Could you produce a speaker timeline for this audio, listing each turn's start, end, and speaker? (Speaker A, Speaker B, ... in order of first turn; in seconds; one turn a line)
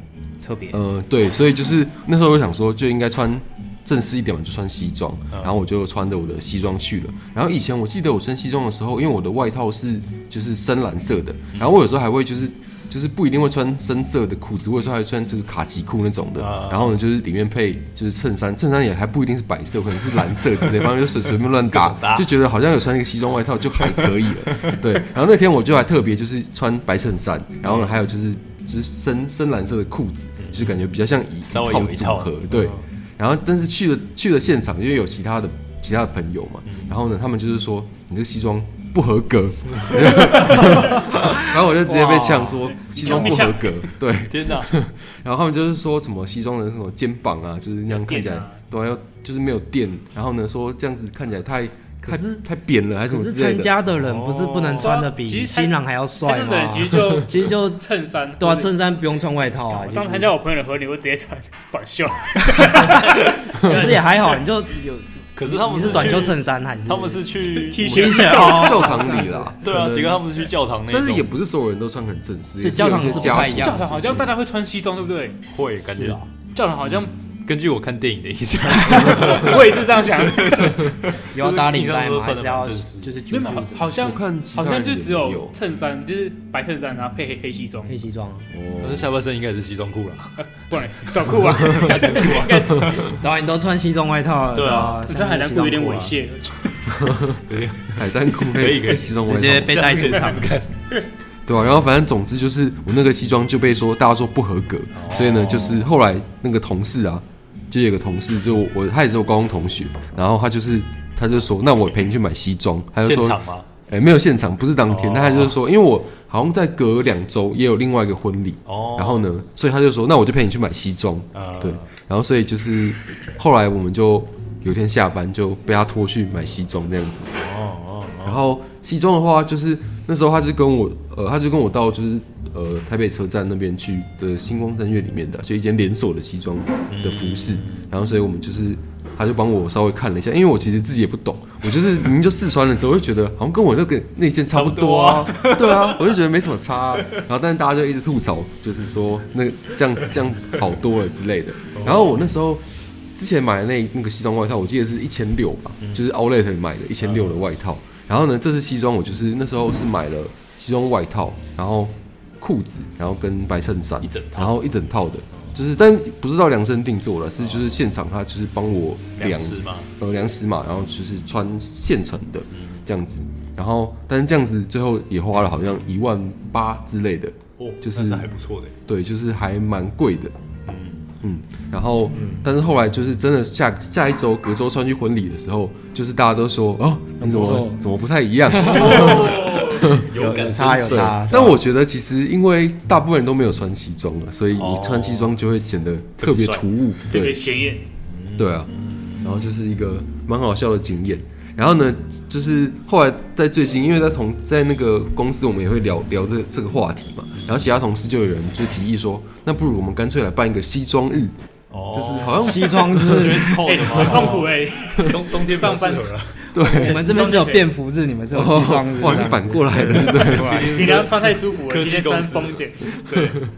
Speaker A: 0.4-0.8
Speaker B: 0.7-53.8
Speaker C: 5.3-5.6
Speaker C: 11.5-11.8
Speaker C: 16.4-17.0
Speaker C: 21.7-22.3
Speaker C: 27.6-27.9
Speaker C: 30.4-30.8
Speaker C: 31.4-32.8
Speaker C: 36.6-37.0
Speaker C: 39.8-40.3
Speaker D: 40.6-40.9
Speaker A: 41.9-42.6
Speaker D: 42.1-43.8
Speaker C: 44.2-44.7
Speaker D: 47.9-48.5
Speaker A: 52.0-52.4
Speaker A: 53.1-60.3
Speaker C: 53.9-54.9
Speaker D: 54.8-58.7
Speaker D: 59.7-64.0
Speaker A: 62.5-69.5
Speaker C: 65.3-68.5
Speaker D: 67.5-69.1
Speaker B: 67.8-70.2
Speaker C: 69.6-71.3
Speaker B: 70.9-74.3
Speaker A: 72.6-74.2
Speaker D: 73.1-75.4
Speaker C: 75.5-76.2
Speaker A: 75.8-76.3
Speaker D: 76.5-77.1
Speaker C: 76.9-83.2
Speaker D: 79.0-80.9
Speaker A: 81.2-84.0
Speaker D: 83.3-88.0
Speaker B: 84.0-85.5
Speaker A: 87.9-88.5
Speaker B: 88.5-89.1
Speaker C: 88.8-90.5
Speaker D: 90.4-93.2
Speaker C: 91.0-93.2
Speaker A: 93.0-96.2
Speaker C: 94.5-95.0
Speaker D: 94.9-97.0
Speaker C: 97.5-100.7
Speaker B: 97.9-99.8
Speaker A: 99.2-100.6
Speaker B: 101.5-127.3
Speaker C: 104.9-105.9
Speaker C: 113.0-113.7
Speaker C: 114.9-115.5
Speaker C: 118.7-119.3
Speaker C: 121.3-121.8
Speaker C: 127.3-128.4
Speaker B: 128.2-152.6
Speaker C: 136.9-137.9
Speaker C: 144.5-146.2
Speaker C: 151.7-152.2
Speaker B: 153.1-178.3
Speaker C: 157.0-157.4
Speaker C: 164.0-164.5
Speaker C: 167.4-167.8
Speaker C: 169.2-169.9
Speaker C: 172.5-172.8
Speaker C: 177.6-178.7
Speaker B: 178.9-180.3
Speaker C: 180.7-181.1
Speaker B: 181.2-190.1
Speaker A: 182.1-182.4
Speaker A: 187.2-187.8
Speaker C: 188.5-191.4
Speaker A: 188.6-189.3
Speaker A: 190.1-191.6
Speaker B: 190.6-197.4
Speaker C: 194.5-195.3
Speaker C: 196.2-196.6
Speaker D: 197.1-197.8
Speaker C: 198.1-199.2
Speaker B: 198.4-211.3
Speaker C: 207.4-207.6
Speaker C: 211.7-216.9
Speaker B: 211.9-213.4
Speaker A: 212.4-214.1
Speaker D: 213.6-216.1
Speaker B: 216.5-217.0
Speaker A: 216.6-219.8
Speaker D: 216.9-217.7
Speaker B: 218.3-220.8
Speaker C: 219.7-223.4
Speaker D: 220.3-222.9